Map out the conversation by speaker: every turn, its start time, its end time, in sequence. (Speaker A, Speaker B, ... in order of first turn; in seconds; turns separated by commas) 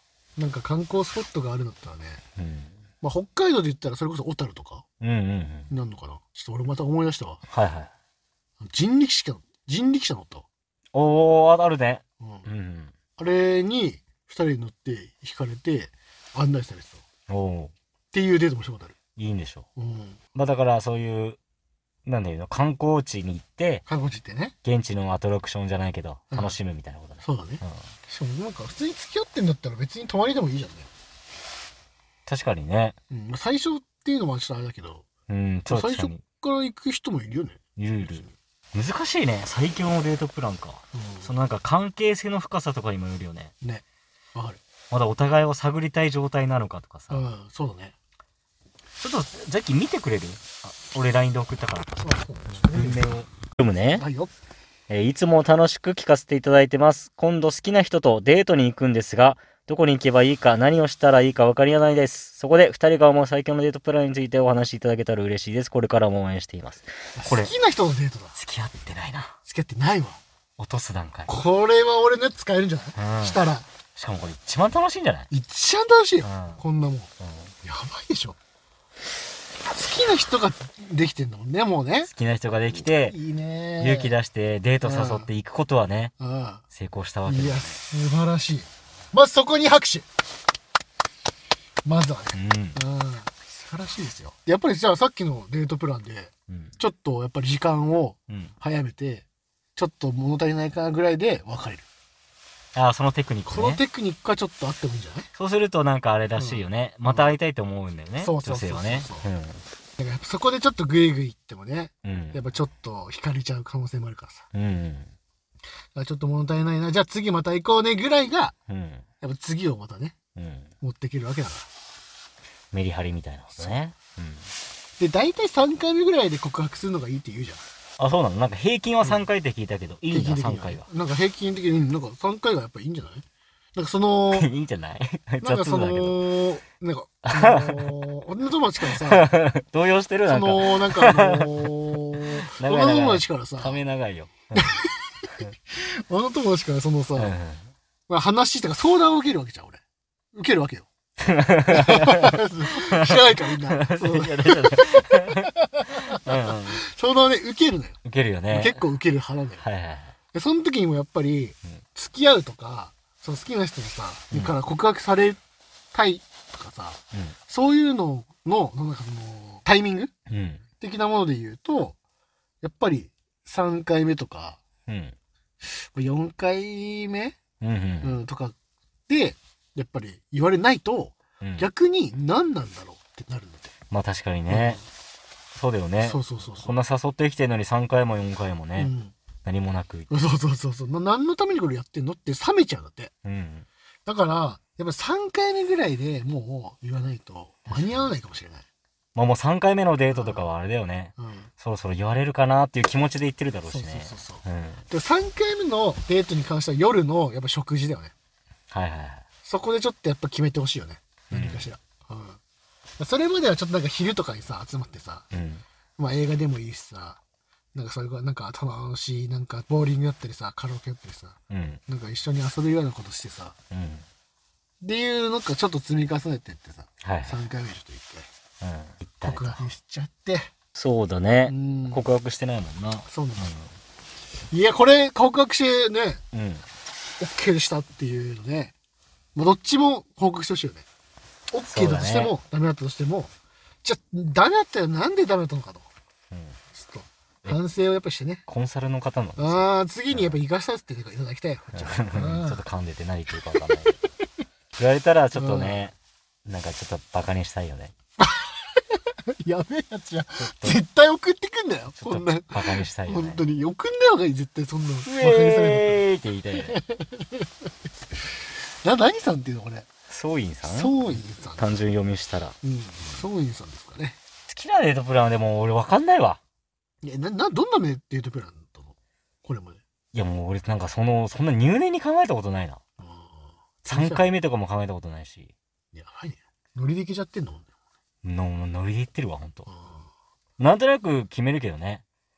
Speaker A: 0.4-2.2, Speaker B: 2.4-2.8, Speaker A: 3.0-4.8, Speaker B: 5.0-5.7, Speaker A: 5.7-7.4, Speaker B: 7.5-7.9, Speaker A: 8.6-10.5, Speaker B: 10.9-12.9, Speaker A: 12.2-12.5, Speaker A: 13.2-17.1, Speaker B: 17.3-17.7, Speaker A: 18.1-19.0, Speaker B: 19.2-19.7, Speaker A: 19.8-20.2, Speaker B: 20.4-21.4, Speaker B: 22.1-23.9, Speaker A: 23.9-24.6, Speaker B: 24.6-27.9, Speaker A: 26.3-26.6, Speaker A: 27.2-30.9, Speaker B: 32.3-33.0, Speaker A: 33.1-35.1, Speaker B: 35.3-36.2, Speaker A: 35.7-38.3, Speaker B: 37.8-43.5, Speaker A: 40.9-41.3, Speaker A: 43.6-44.6, Speaker B: 44.9-47.2, Speaker A: 47.1-48.0, Speaker B: 49.0-54.0, Speaker A: 52.0-53.1, Speaker A: 53.9-54.3, Speaker B: 54.9-67.5, Speaker A: 67.2-68.4, Speaker B: 68.3-69.4, Speaker A: 69.4-70.2, Speaker B: 70.6-71.3, Speaker A: 71.3-73.7, Speaker B: 73.0-73.4, Speaker B: 74.0-75.3, Speaker A: 75.3-77.1, Speaker B: 76.2-76.6, Speaker B: 77.2-77.5, Speaker A: 77.6-78.4, Speaker A: 79.7-82.1, Speaker B: 82.1-83.2, Speaker A: 83.0-84.2, Speaker B: 83.8-86.1, Speaker A: 84.8-85.3, Speaker A: 86.2-86.6, Speaker B: 86.7-87.8, Speaker A: 87.3-90.1, Speaker A: 91.8-99.2, Speaker B: 92.3-92.8, Speaker B: 96.5-96.8, Speaker B: 98.3-98.5, Speaker A: 99.8-101.9, Speaker B: 102.7-103.8, Speaker A: 103.5-105.3, Speaker B: 105.4-109.6, Speaker A: 106.4-107.3, Speaker A: 108.2-109.3, Speaker A: 110.0-114.5, Speaker B: 112.0-112.4, Speaker B: 114.5-115.1, Speaker A: 116.0-118.5, Speaker B: 118.7-119.0, Speaker A: 119.2-120.2, Speaker B: 120.4-120.7, Speaker A: 120.8-121.7, Speaker B: 122.7-124.5, Speaker A: 125.0-127.6, Speaker B: 128.0-130.9, Speaker A: 130.1-134.5, Speaker B: 134.3-136.3, Speaker A: 135.4-139.3, Speaker B: 137.2-138.0, Speaker B: 138.8-144.8, Speaker A: 140.3-143.8, Speaker A: 144.5-147.3, Speaker B: 147.2-147.7, Speaker A: 148.1-149.8, Speaker A: 150.3-150.9, Speaker B: 151.2-156.8, Speaker A: 151.7-159.7, Speaker B: 158.0-158.8, Speaker B: 159.6-160.1, Speaker A: 160.3-165.4, Speaker A: 165.9-170.1, Speaker B: 170.3-170.6, Speaker A: 170.8-172.0, Speaker A: 172.6-174.6, Speaker B: 174.9-175.2, Speaker A: 175.6-177.4, Speaker B: 177.6-178.2, Speaker A: 178.0-178.6, Speaker A: 179.1-183.7, Speaker B: 181.4-181.7, Speaker B: 183.9-184.8, Speaker A: 184.5-184.8, Speaker B: 185.5-188.9, Speaker A: 186.0-186.7, Speaker A: 188.8-189.1, Speaker B: 189.4-190.1, Speaker A: 190.1-193.1, Speaker B: 193.2-193.7, Speaker A: 194.1-198.7, Speaker B: 197.7-198.1, Speaker B: 199.2-204.8, Speaker A: 200.1-200.5, Speaker A: 201.2-201.5, Speaker A: 203.7-208.1, Speaker B: 208.7-209.2, Speaker A: 209.4-212.4, Speaker B: 211.3-211.7, Speaker A: 213.0-215.3, Speaker B: 215.3-215.6, Speaker A: 216.0-217.2, Speaker A: 217.7-223.6, Speaker B: 221.5-221.8, Speaker B: 223.7-224.1, Speaker A: 224.8-228.3, Speaker B: 227.0-227.4, Speaker B: 228.6-229.7, Speaker A: 229.2-230.5, Speaker B: 230.8-233.7, Speaker A: 231.5-232.1, Speaker A: 233.1-233.5, Speaker A: 234.5-236.2, Speaker B: 236.3-236.7, Speaker A: 237.2-238.7, Speaker A: 239.3-240.9, Speaker A: 241.5-243.3, Speaker B: 241.7-242.3, Speaker A: 243.8-245.9, Speaker B: 246.3-246.6, Speaker A: 246.7-248.5, Speaker B: 248.5-250.4, Speaker A: 249.4-252.6, Speaker B: 251.7-254.0, Speaker B: 254.8-257.9, Speaker A: 255.3-255.8, Speaker A: 258.2-266.0, Speaker B: 260.4-260.8, Speaker B: 262.0-263.4, Speaker B: 265.1-266.8, Speaker A: 266.6-267.5, Speaker A: 268.8-269.9, Speaker B: 270.1-272.6, Speaker A: 270.6-271.8, Speaker A: 272.6-274.2, Speaker B: 274.5-276.4, Speaker A: 277.0-279.8, Speaker B: 280.1-282.8, Speaker A: 283.0-284.3, Speaker B: 283.9-285.5, Speaker A: 285.9-287.7, Speaker B: 288.2-289.7, Speaker A: 289.7-290.1, Speaker B: 290.6-292.0